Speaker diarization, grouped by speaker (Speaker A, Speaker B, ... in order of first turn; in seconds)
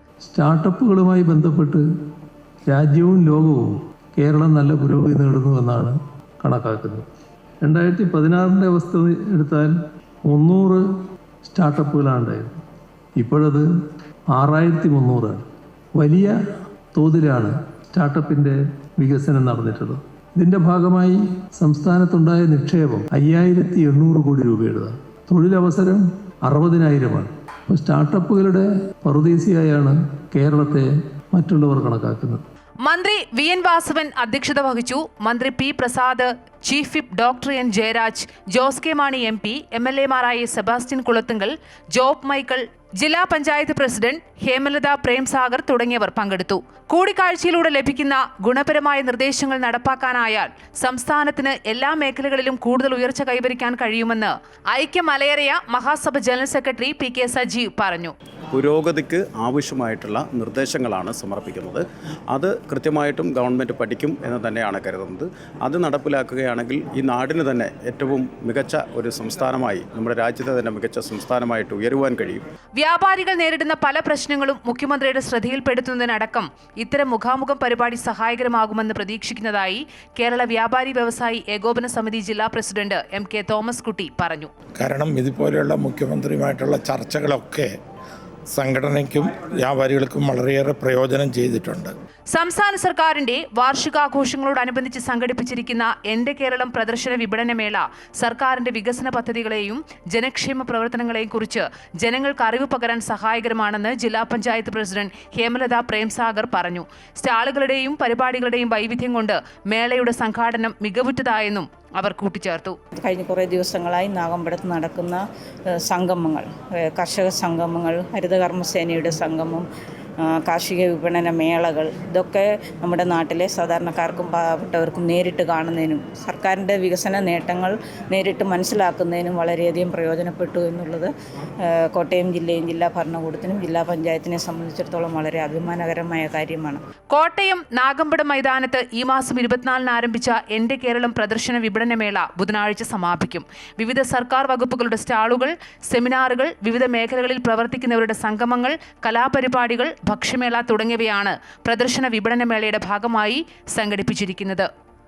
Speaker A: 0.2-1.9, 2.7-7.1, 7.6-9.7, 10.2-10.8, 11.4-12.6, 13.2-13.7, 14.3-15.4, 15.9-16.4, 16.9-32.4
Speaker B: 32.8-58.1, 72.8-84.5, 92.3-112.8, 137.1-154.7
Speaker C: 58.5-72.4
Speaker D: 84.8-87.7, 88.5-91.9
Speaker E: 113.0-115.2, 115.8-119.7, 120.2-131.1, 131.6-136.8